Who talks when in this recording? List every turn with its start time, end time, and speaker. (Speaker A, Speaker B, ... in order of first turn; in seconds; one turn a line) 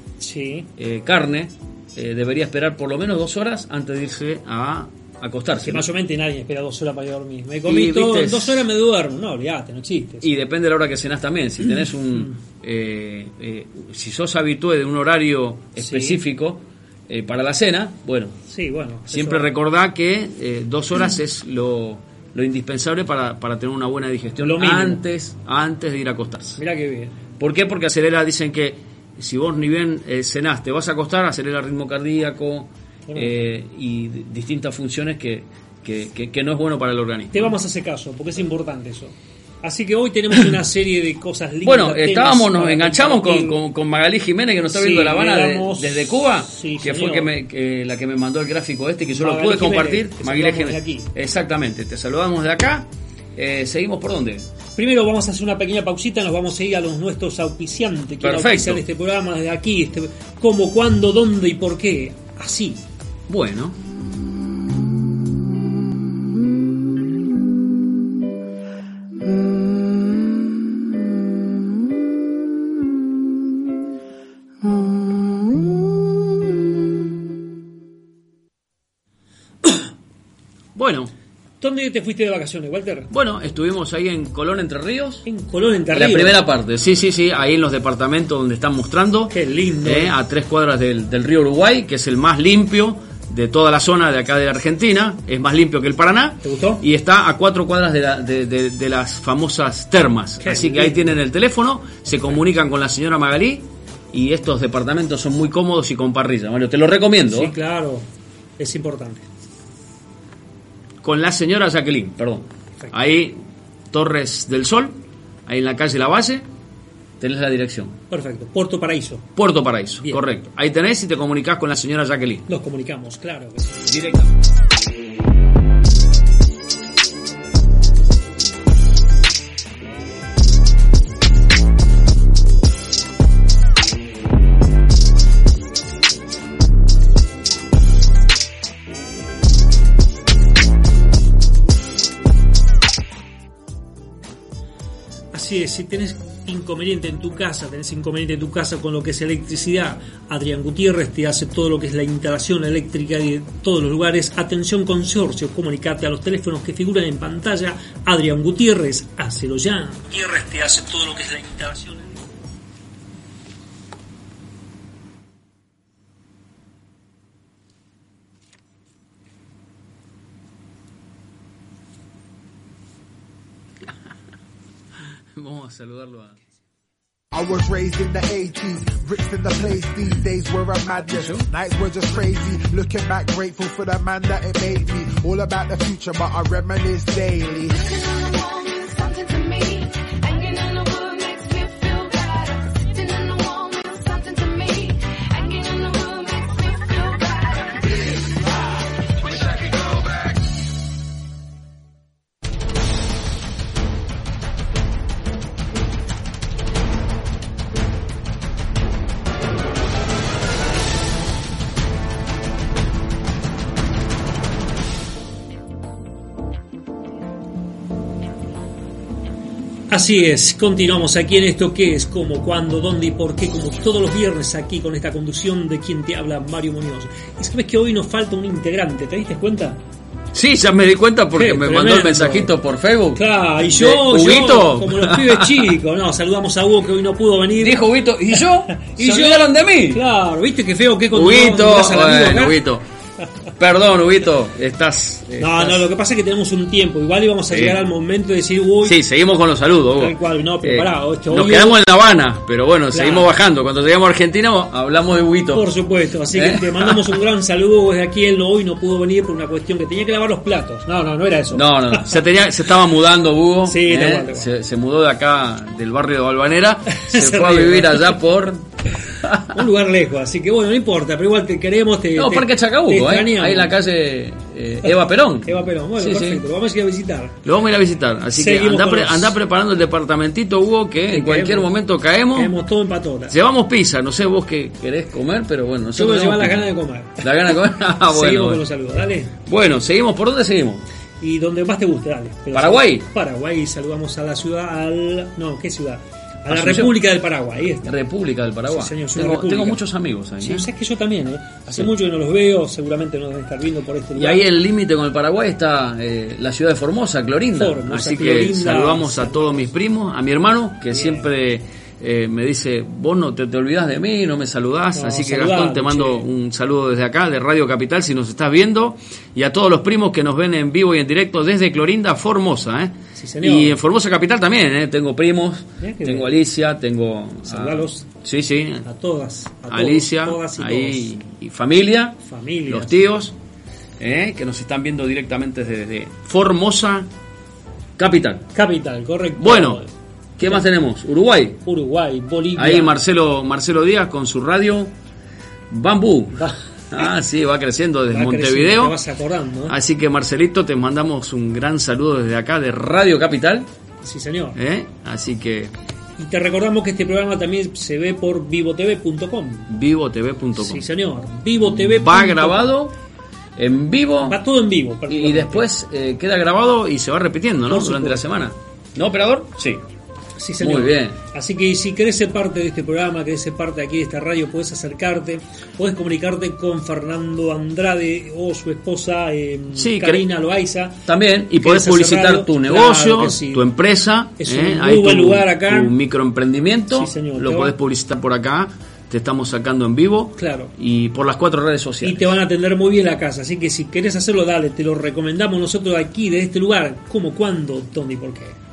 Speaker A: 0.2-0.7
Speaker B: 0.8-5.8
Speaker A: 5.6-10.3
Speaker B: 7.7-8.7
Speaker B: 10.2-18.4
Speaker A: 15.8-16.2
Speaker A: 18.5-19.5
Speaker B: 19.1-26.6
Speaker A: 24.4-25.0
Speaker A: 26.6-27.2
Speaker B: 27.4-37.5
Speaker A: 33.1-33.3
Speaker A: 37.3-43.6
Speaker B: 41.6-54.5
Speaker A: 44.7-47.3
Speaker A: 49.2-51.1
Speaker A: 54.8-62.8
Speaker B: 58.2-58.8
Speaker B: 63.3-63.8
Speaker B: 80.7-81.1
Speaker A: 81.6-83.1
Speaker B: 83.1-85.2
Speaker A: 85.2-86.4
Speaker B: 85.9-107.5
Speaker A: 89.3-90.1
Speaker A: 96.4-96.8
Speaker A: 100.4-101.2
Speaker A: 107.3-108.0
Speaker A: 108.6-109.2
Speaker B: 111.0-113.3
Speaker B: 113.9-116.5
Speaker B: 117.2-118.0
Speaker A: 118.1-119.2
Speaker B: 119.3-122.5
Speaker A: 122.5-124.1
Speaker B: 123.9-124.3
Speaker A: 145.3-162.1
Speaker B: 175.3-176.3
Speaker C: 177.3-187.8
Speaker B: 181.1-181.5
Speaker D: 187.7-198.5
Speaker D: 199.3-200.0
Speaker A: 219.9-229.8
Speaker B: 230.3-235.7
Speaker A: 231.3-232.5
Speaker A: 233.2-237.8
Speaker B: 237.6-240.0
Speaker A: 238.7-242.6
Speaker B: 241.1-242.8
Speaker B: 243.6-245.9
Speaker A: 245.4-249.0
Speaker B: 247.5-247.8
Speaker B: 248.8-255.7
Speaker A: 250.0-251.8
Speaker A: 252.9-253.3
Speaker A: 255.5-262.1
Speaker B: 256.3-257.1
Speaker B: 261.5-268.6
Speaker A: 263.6-264.5
Speaker A: 266.9-268.2
Speaker B: 269.2-269.6
Speaker A: 269.4-273.7
Speaker B: 272.1-276.4
Speaker A: 275.4-277.4
Speaker B: 277.4-282.5
Speaker A: 278.3-279.3
Speaker A: 281.1-281.7
Speaker A: 282.3-283.4
Speaker B: 283.3-286.7
Speaker A: 285.9-289.3
Speaker B: 287.2-288.6
Speaker B: 289.4-290.8
Speaker A: 291.2-297.9
Speaker B: 292.5-293.1
Speaker B: 296.5-297.0
Speaker B: 297.8-300.7
Speaker A: 298.7-299.8
Speaker A: 300.4-304.4
Speaker B: 304.1-328.8
Speaker A: 307.5-309.7
Speaker A: 310.9-311.2
Speaker A: 314.9-316.2
Speaker A: 323.1-323.8
Speaker A: 325.8-326.3
Speaker A: 327.4-328.1
Speaker A: 328.8-331.1
Speaker B: 329.7-332.2
Speaker A: 332.2-333.1
Speaker B: 332.7-333.3
Speaker B: 334.0-337.1
Speaker B: 338.0-338.5
Speaker A: 338.5-339.9
Speaker B: 339.4-339.8
Speaker B: 340.4-341.6
Speaker A: 341.6-342.9
Speaker B: 342.6-344.9
Speaker B: 345.7-348.9
Speaker A: 348.1-349.8
Speaker B: 349.7-353.7
Speaker A: 354.0-354.6
Speaker B: 354.6-355.7
Speaker A: 356.2-359.7
Speaker B: 359.7-360.9
Speaker A: 360.6-362.7
Speaker B: 361.8-362.9
Speaker B: 363.6-364.4
Speaker A: 364.2-365.6
Speaker B: 365.1-369.8
Speaker A: 367.7-368.2
Speaker A: 370.4-381.0
Speaker B: 370.6-371.2
Speaker B: 379.7-380.2
Speaker B: 381.1-392.3
Speaker A: 381.6-383.7
Speaker A: 384.4-385.9
Speaker A: 386.9-387.7
Speaker A: 390.4-390.7
Speaker A: 392.0-398.6